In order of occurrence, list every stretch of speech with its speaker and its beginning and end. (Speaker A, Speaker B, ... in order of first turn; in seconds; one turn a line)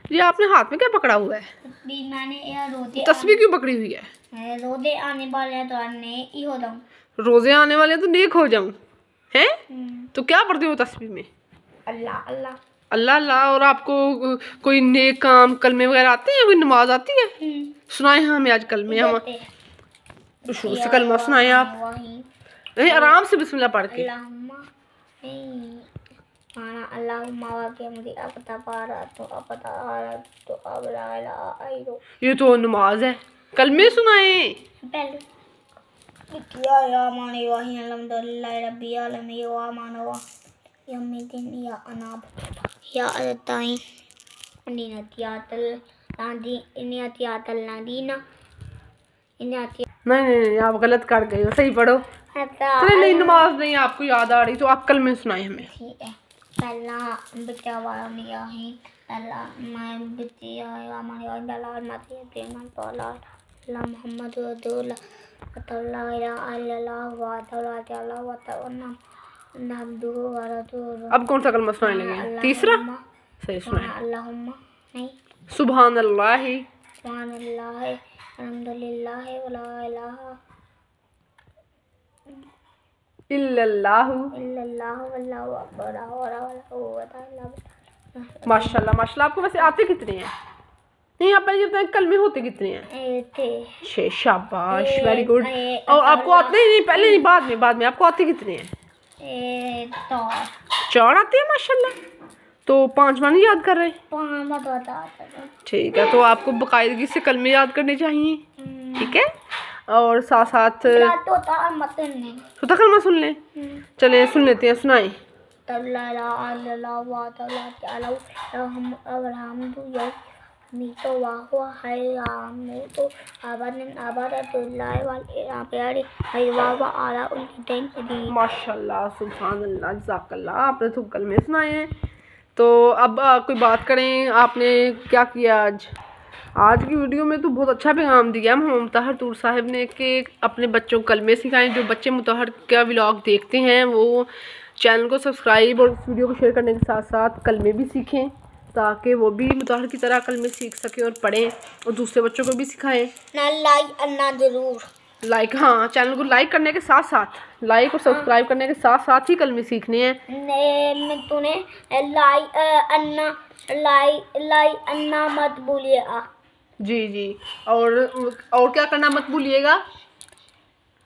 Speaker A: 0.1-1.5
Speaker B: 1.6-3.4
Speaker A: 3.0-4.1
Speaker B: 4.3-6.8
Speaker A: 7.2-8.8
Speaker B: 9.7-10.1
Speaker A: 10.1-11.3
Speaker B: 11.9-12.6
Speaker A: 12.9-17.3
Speaker B: 17.4-17.8
Speaker A: 17.9-19.2
Speaker B: 18.9-19.5
Speaker B: 20.5-22.3
Speaker A: 20.5-21.8
Speaker A: 22.8-24.1
Speaker B: 22.8-23.2
Speaker B: 23.9-24.7
Speaker B: 25.2-25.9
Speaker B: 26.6-32.0
Speaker A: 32.2-34.6
Speaker B: 34.8-35.2
Speaker B: 36.3-40.2
Speaker B: 40.9-43.8
Speaker B: 44.7-48.2
Speaker B: 49.4-49.8
Speaker A: 50.1-52.0
Speaker B: 52.4-53.5
Speaker A: 52.8-55.7
Speaker B: 55.7-65.0
Speaker B: 65.5-69.0
Speaker B: 69.6-71.2
Speaker A: 71.1-72.8
Speaker B: 71.8-73.0
Speaker A: 73.4-73.9
Speaker B: 73.7-75.2
Speaker A: 75.5-76.7
Speaker B: 77.0-80.4
Speaker A: 83.3-84.3
Speaker B: 84.3-88.8
Speaker A: 88.5-90.3
Speaker A: 91.2-92.9
Speaker B: 92.9-93.8
Speaker A: 93.8-98.7
Speaker B: 94.7-97.3
Speaker B: 99.2-100.5
Speaker A: 100.9-102.0
Speaker A: 102.7-104.0
Speaker B: 104.1-105.5
Speaker A: 105.7-108.4
Speaker B: 108.6-109.2
Speaker A: 109.0-109.3
Speaker A: 109.9-111.1
Speaker B: 110.8-112.5
Speaker A: 112.6-113.4
Speaker B: 113.5-113.9
Speaker A: 114.0-115.2
Speaker B: 115.7-128.4
Speaker A: 128.3-131.9
Speaker A: 132.6-135.9
Speaker A: 136.6-153.1
Speaker B: 153.3-154.9
Speaker A: 155.2-160.2
Speaker B: 160.3-166.3
Speaker A: 166.8-169.8